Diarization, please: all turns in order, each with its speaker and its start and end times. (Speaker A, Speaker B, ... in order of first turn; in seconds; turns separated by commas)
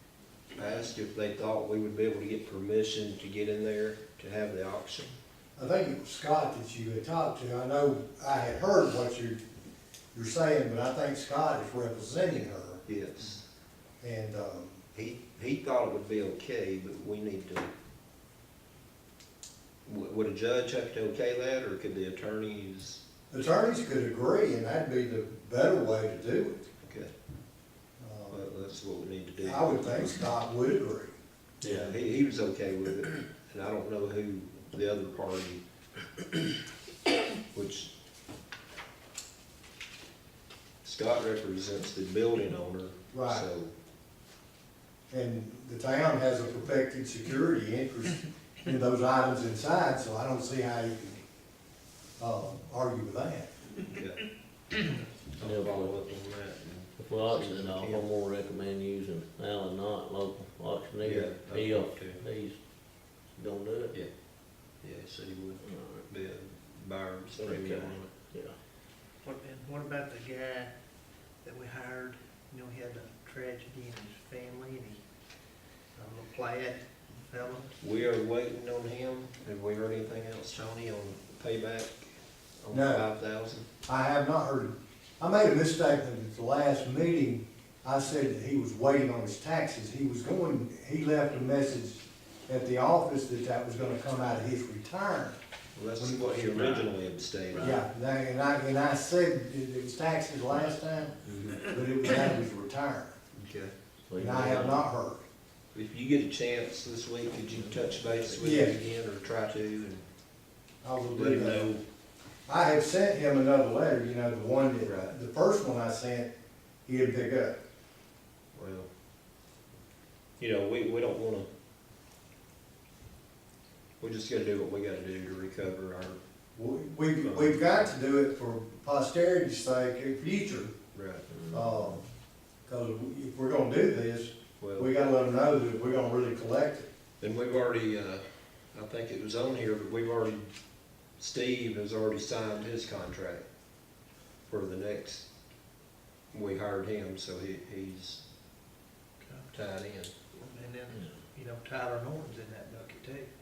Speaker A: 0.5-5.2, Speaker B: 5.6-9.4, Speaker B: 10.1-12.8, Speaker A: 12.9-13.4, Speaker B: 14.0-14.8, Speaker A: 14.9-17.7, Speaker A: 19.9-23.0, Speaker B: 23.3-26.6, Speaker A: 26.8-27.1, Speaker B: 28.0-28.5, Speaker A: 28.3-30.2, Speaker B: 29.4-31.1, Speaker A: 31.6-35.6, Speaker C: 31.6-32.0, Speaker A: 37.5-37.9, Speaker A: 40.8-43.7, Speaker B: 43.1-43.5, Speaker B: 45.1-51.2, Speaker B: 52.2-53.5, Speaker A: 53.9-54.2, Speaker A: 55.4-58.1, Speaker C: 55.4-56.0, Speaker C: 57.0-64.0, Speaker A: 61.0-62.3, Speaker A: 64.8-68.1, Speaker C: 65.6-66.1, Speaker C: 67.4-68.6, Speaker D: 69.2-70.7, Speaker D: 71.4-75.0, Speaker D: 76.0-77.8, Speaker A: 77.8-82.0, Speaker A: 82.6-83.7, Speaker B: 82.7-83.0, Speaker B: 83.9-95.4, Speaker A: 95.8-97.8, Speaker B: 96.0-96.5, Speaker C: 96.5-96.9, Speaker C: 97.5-97.8, Speaker B: 97.6-103.2, Speaker C: 101.3-101.6, Speaker A: 103.3-103.7, Speaker C: 104.1-104.8, Speaker B: 104.2-105.2, Speaker A: 105.7-110.1, Speaker B: 108.4-108.8, Speaker B: 110.8-111.7, Speaker A: 111.1-111.8, Speaker B: 112.5-116.3, Speaker A: 114.8-115.2, Speaker B: 116.9-117.6, Speaker A: 118.5-118.9, Speaker A: 120.4-121.5, Speaker A: 124.0-126.2, Speaker B: 126.6-130.8, Speaker A: 127.2-127.8, Speaker A: 130.9-131.3, Speaker C: 131.3-131.7, Speaker B: 131.5-132.1, Speaker B: 132.7-136.9, Speaker A: 134.6-134.9, Speaker A: 137.2-140.5, Speaker A: 141.2-143.5, Speaker A: 144.5-145.3, Speaker A: 146.3-148.2, Speaker D: 149.2-149.5, Speaker A: 149.5-150.1, Speaker D: 150.3-153.3